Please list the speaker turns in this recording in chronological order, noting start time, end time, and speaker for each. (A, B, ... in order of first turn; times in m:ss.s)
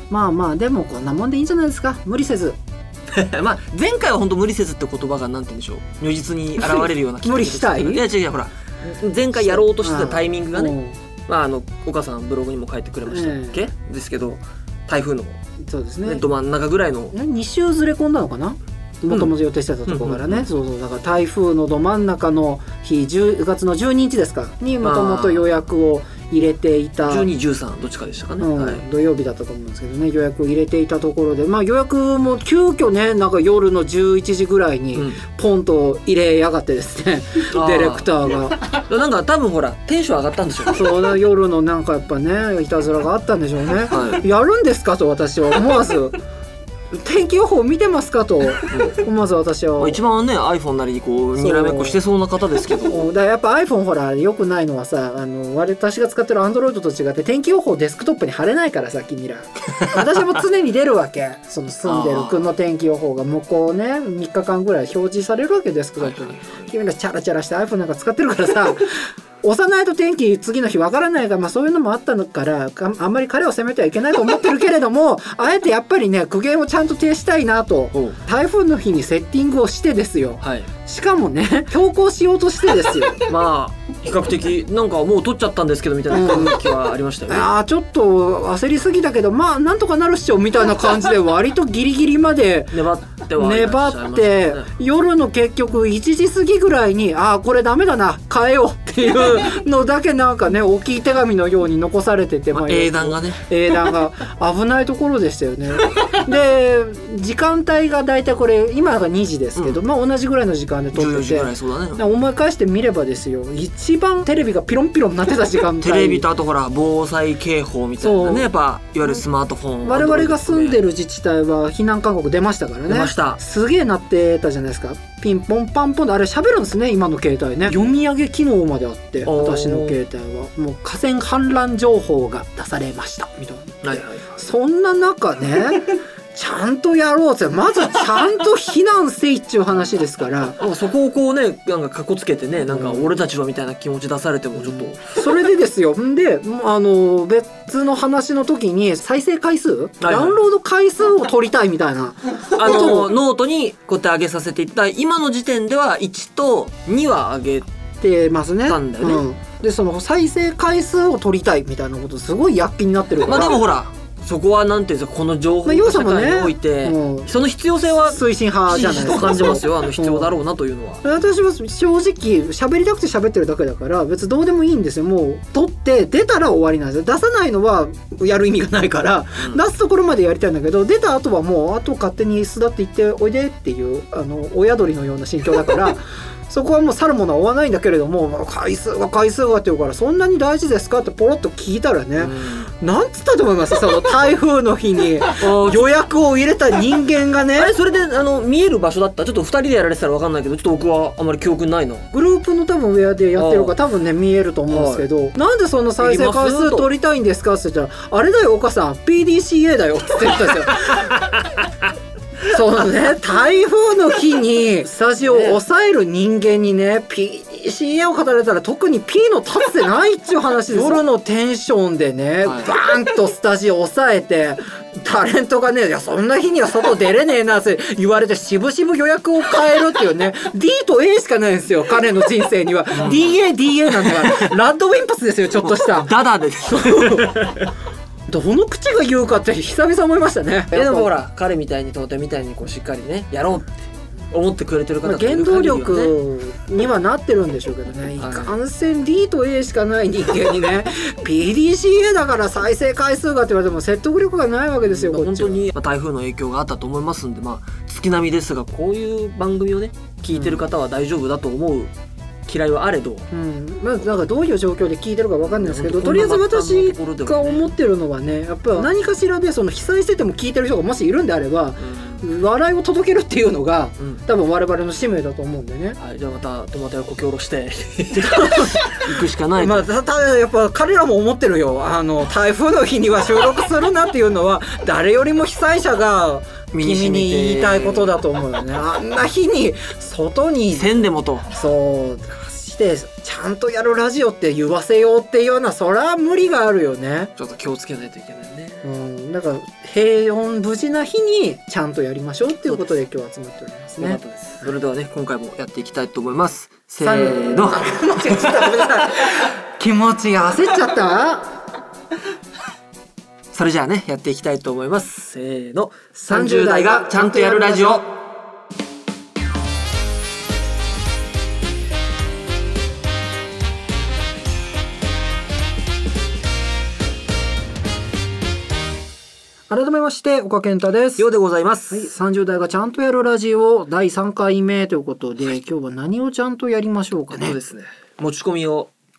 0:00.1-0:02.6 A
0:03.1-0:10.7 B
0:06.6-0:08.0 A
0:09.3-0:11.0 A
0:11.3-0:15.4 B
0:13.1-0:13.6 A
0:15.6-0:16.2 A
0:16.0-0:17.1 B
0:17.1-0:27.3 A
0:19.9-0:20.5 B
0:24.8-0:25.5 B
0:27.0-0:28.8 B
0:28.4-0:38.7 A
0:34.9-0:35.2 B
0:37.5-0:40.9 B
0:40.7-0:46.2 A
0:43.8-0:44.2 B
0:46.9-0:50.0 A
0:48.7-0:49.0 B
0:49.8-0:53.1 B
0:51.4-0:52.0 A
0:52.8-1:23.3 A
0:59.8-1:00.1 B
1:01.8-1:02.5 B
1:06.0-1:06.7 B
1:20.4-1:20.7 B
1:23.3-1:27.5 B
1:26.1-1:26.6 A
1:27.3-1:56.2 A
1:32.7-1:34.7 B
1:42.5-1:43.4 B
1:49.6-1:49.8 B
1:50.9-1:52.0 B
1:55.8-2:00.8 B
1:58.0-1:58.5 A
1:59.8-2:20.6 A
2:02.9-2:03.4 B
2:09.2-2:10.0 B
2:13.8-2:14.4 B
2:20.6-2:25.0 B
2:22.7-2:23.1 A
2:24.6-2:33.1 A
2:30.0-2:30.4 B
2:32.5-2:37.7 B
2:38.0-2:43.6 A
2:38.6-2:39.2 B
2:43.2-2:51.0 B
2:45.6-2:47.3 A
2:48.0-2:50.3 A
2:51.0-3:17.7 A
3:12.2-3:12.7 B
3:15.4-3:15.9 B
3:17.5-3:22.1 B
3:22.1-3:31.2 A
3:23.3-3:23.8 B
3:24.7-3:25.0 B
3:26.0-3:26.9 B
3:32.4-3:56.1 A
3:35.2-3:35.6 B
3:40.7-3:41.0 B
3:42.4-3:42.7 B
3:52.9-3:54.6 B
3:55.6-3:57.7 B
3:56.7-3:57.6 A
3:58.3-4:01.1 A
4:00.7-4:03.7 B
4:04.3-4:06.1 B
4:05.0-4:15.7 A
4:08.2-4:08.5 B
4:14.9-4:21.9 B
4:20.3-4:20.6 A
4:22.4-4:23.3 B
4:23.3-4:36.0 A
4:25.4-4:27.7 B
4:31.8-4:32.2 B
4:36.0-4:39.9 B
4:38.2-4:39.0 A
4:39.6-4:57.3 A
4:46.7-4:48.2 B
4:50.7-4:51.4 B
4:57.4-4:58.8 B
4:58.8-5:04.2 A
5:02.6-5:03.0 B
5:04.0-5:09.1 B
5:07.0-5:11.5 A
5:13.5-5:18.0 B
5:16.1-5:18.0 A
5:29.7-5:31.3 A
5:31.2-5:32.1 B
5:31.9-5:37.6 A
5:37.3-5:38.9 B